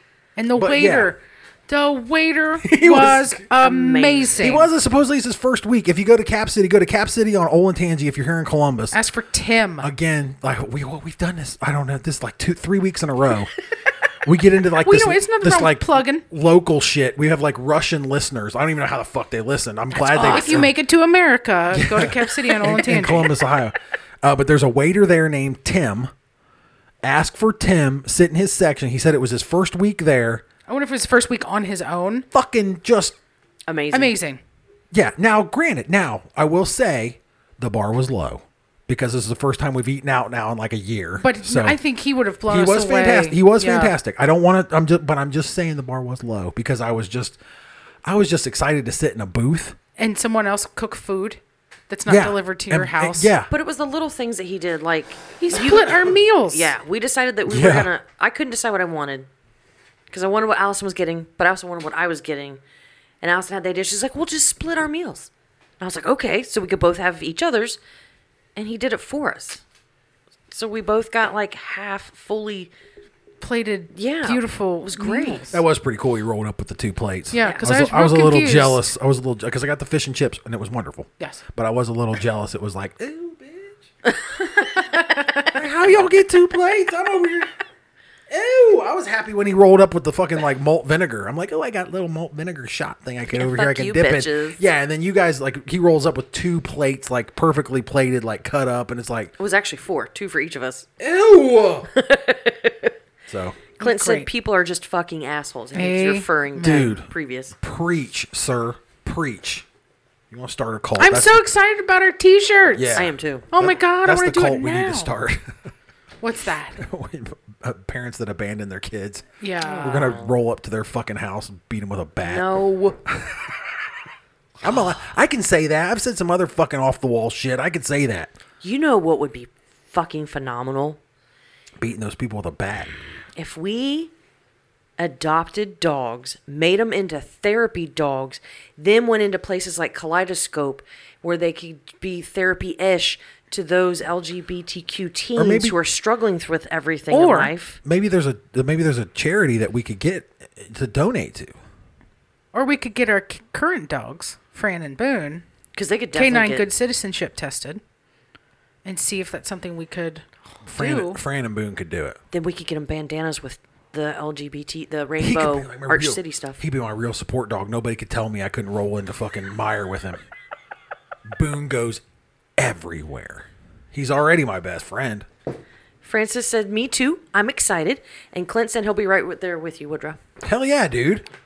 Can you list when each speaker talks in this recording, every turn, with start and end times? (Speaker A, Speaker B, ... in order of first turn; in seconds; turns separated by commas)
Speaker A: 0.3-4.7, Speaker B: 0.5-1.1, Speaker B: 2.6-3.4, Speaker C: 3.6-4.6, Speaker B: 4.4-9.0, Speaker A: 8.9-9.9, Speaker B: 9.8-13.5, Speaker B: 14.2-20.7, Speaker A: 14.8-16.2, Speaker C: 20.0-20.7, Speaker A: 20.1-23.4, Speaker B: 21.7-26.1, Speaker B: 27.0-30.4, Speaker A: 30.7-32.2, Speaker B: 32.3-33.1, Speaker C: 33.7-34.1, Speaker A: 33.9-34.4, Speaker B: 34.9-41.8, Speaker A: 41.2-43.9, Speaker B: 42.5-47.4, Speaker B: 48.0-49.8, Speaker A: 50.0-53.3, Speaker B: 52.1-53.5, Speaker C: 53.5-59.3, Speaker A: 55.4-56.7, Speaker B: 57.5-57.9, Speaker C: 60.1-62.6, Speaker C: 63.2-67.8, Speaker C: 68.5-69.6, Speaker C: 70.5-72.7, Speaker A: 73.4-75.6, Speaker C: 73.9-75.5, Speaker B: 75.5-83.8, Speaker A: 77.3-78.8, Speaker C: 77.4-77.6, Speaker C: 84.0-85.4, Speaker A: 84.6-85.5, Speaker B: 85.5-87.5, Speaker B: 88.3-99.3, Speaker C: 93.3-94.6, Speaker C: 99.4-100.9, Speaker B: 101.0-101.9, Speaker C: 101.9-102.9, Speaker B: 103.3-103.6, Speaker A: 103.8-104.3, Speaker C: 103.8-107.5, Speaker A: 105.7-106.9, Speaker B: 106.6-109.7, Speaker B: 110.3-111.4, Speaker A: 111.0-115.1, Speaker B: 112.7-115.6, Speaker C: 112.9-113.5, Speaker A: 116.2-116.8, Speaker B: 116.8-119.2, Speaker A: 119.4-120.1, Speaker C: 119.6-120.3, Speaker B: 119.8-123.6, Speaker C: 122.2-123.0, Speaker B: 124.6-128.3, Speaker C: 128.6-131.0, Speaker B: 131.8-132.9, Speaker C: 133.3-134.1, Speaker C: 135.0-147.8, Speaker B: 145.3-145.8, Speaker A: 147.1-147.5, Speaker B: 147.8-151.5, Speaker A: 152.5-155.4, Speaker C: 155.7-156.7, Speaker A: 156.1-157.8, Speaker A: 158.8-161.2, Speaker B: 160.7-162.2, Speaker C: 162.3-166.6, Speaker B: 165.2-170.2, Speaker B: 171.3-172.0, Speaker B: 172.6-175.3, Speaker C: 176.0-180.2, Speaker B: 180.4-181.2